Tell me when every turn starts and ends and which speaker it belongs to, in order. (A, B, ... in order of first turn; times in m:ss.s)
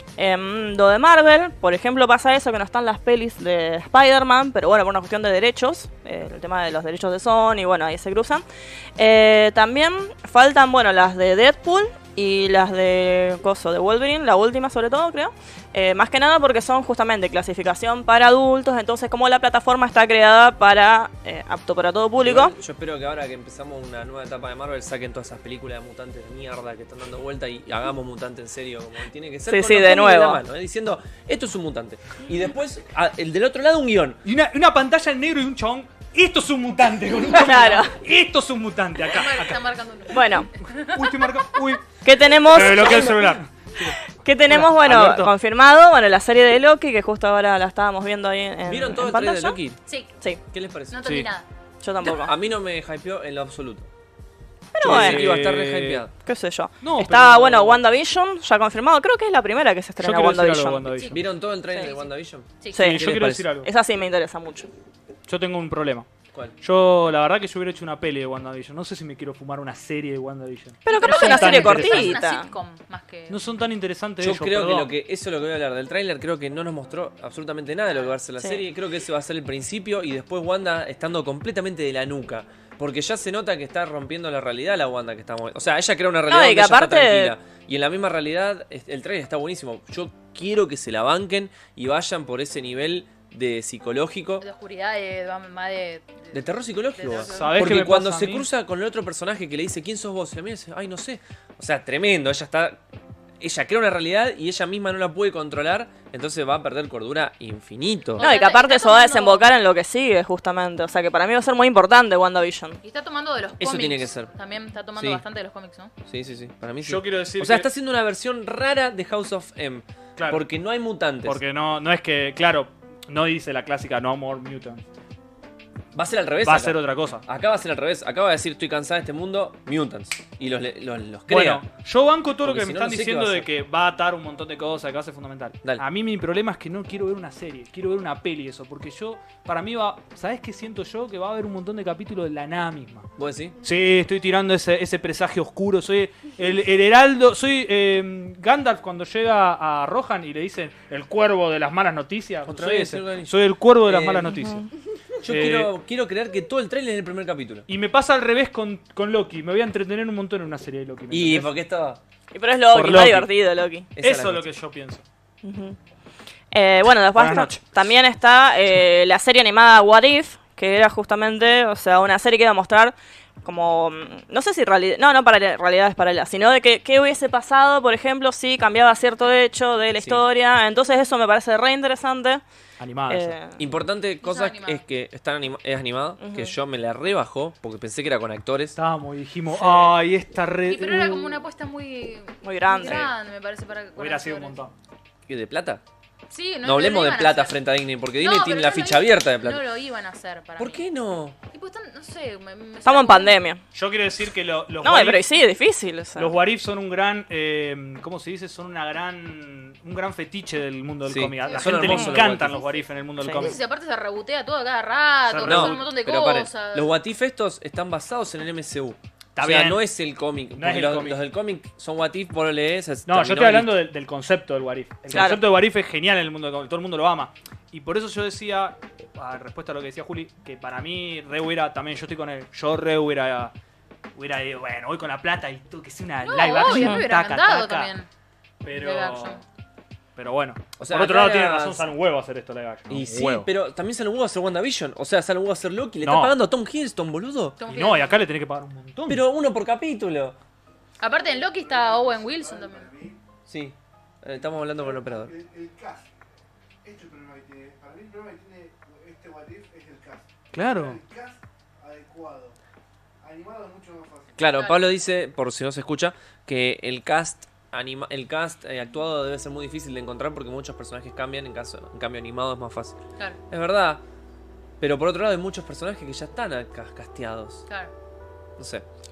0:00.2-0:08.4 A
0:09.0-0:22.5 A
0:22.2-0:34.2 B
0:29.5-0:30.4 A
0:34.2-0:39.6 C
0:37.2-0:38.0 A
0:39.0-0:41.6 D
0:40.1-0:40.5 A
0:40.8-0:45.3 C
0:42.0-0:43.4 A
0:44.1-0:49.6 A
0:48.6-0:49.8 B
0:49.9-0:50.1 D
0:50.5-0:51.3 B
0:50.9-0:51.4 D
0:51.8-0:52.3 A
0:52.0-0:53.9 B
0:54.7-0:55.4 A
0:54.8-0:56.1 C
0:54.8-0:56.1 B
0:56.2-1:01.0 A
0:56.8-0:57.8 C
1:00.0-1:01.2 C
1:00.9-1:03.0 D
1:01.1-1:03.5 B
1:02.7-1:04.7 A
1:02.7-1:03.7 C
1:05.3-1:06.1 C
1:06.6-1:12.2 C
1:10.8-1:12.5 A
1:10.9-1:13.4 D
1:13.3-1:14.9 C
1:14.2-1:34.4 B
1:26.3-1:27.3 A
1:34.4-1:37.9 D
1:36.3-1:42.8 B
1:37.3-1:38.5 C
1:43.4-1:48.3 B
1:48.2-1:49.5 D
1:48.2-1:52.8 A
1:52.8-1:55.9 D
1:53.6-1:54.3 B
1:55.0-1:55.2 B
1:56.0-2:01.4 B
1:56.8-1:57.7 C
2:00.2-2:00.4 C
2:01.2-2:04.8 C
2:05.9-2:11.6 B
2:06.4-2:07.2 C
2:11.3-2:23.1 C
2:12.4-2:13.5 B
2:23.2-2:23.6 B
2:23.6-2:34.7 C
2:32.4-2:34.3 B
2:34.3-2:34.6 A
2:35.2-2:37.7 B
2:35.2-2:35.7 C
2:37.7-2:41.5 C
2:41.1-2:42.0 B
2:42.3-2:43.9 A
2:42.7-2:43.3 C
2:44.0-2:44.4 B
2:44.0-2:45.0 C
2:45.4-2:45.8 A
2:46.5-3:02.4 A
2:47.1-2:47.6 C
3:00.0-3:00.2 B
3:02.8-3:03.4 C
3:03.1-3:03.6 A
3:03.6-3:08.8 B
3:04.2-3:04.8 D
3:06.2-3:06.5 A
3:08.8-3:11.4 C
3:09.5-3:10.0 A
3:10.7-3:14.6 D
3:12.4-3:13.1 A
3:14.0-3:14.7 C
3:15.3-3:15.8 B
3:16.3-3:17.6 D
3:16.6-3:19.7 B
3:18.2-3:20.9 D
3:20.6-3:21.4 B
3:21.5-3:23.4 D
3:22.8-3:23.6 A
3:23.7-3:25.3 C
3:24.8-3:26.3 A
3:26.2-3:33.6 C
3:31.0-3:32.6 B
3:31.5-3:32.0 D
3:31.9-3:32.2 A
3:33.2-3:33.5 A
3:33.3-3:37.0 D
3:35.3-3:35.9 C
3:35.4-3:43.9 B
3:39.4-3:39.8 C
3:40.6-3:41.2 C
3:43.0-3:53.5 C
3:45.1-3:45.5 A
3:54.1-3:57.9 C
3:56.2-3:58.1 D
3:56.6-3:57.0 A
3:58.6-3:59.4 C
3:58.7-3:59.4 D
4:00.2-4:03.5 C
4:00.8-4:01.9 B
4:02.9-4:07.6 B
4:06.0-4:06.4 C
4:07.6-4:08.2 D
4:07.6-4:09.2 C
4:09.1-4:10.4 B
4:11.0-4:12.9 D
4:11.0-4:13.3 E
4:13.5-4:15.3 B
4:14.4-4:16.1 E
4:16.8-4:22.6 E
4:20.5-4:21.0 C
4:23.2-4:24.5 E
4:24.4-4:33.0 B
4:24.5-4:24.9 D
4:33.5-4:34.0 B
4:34.8-4:37.6 B
4:38.6-4:38.8 B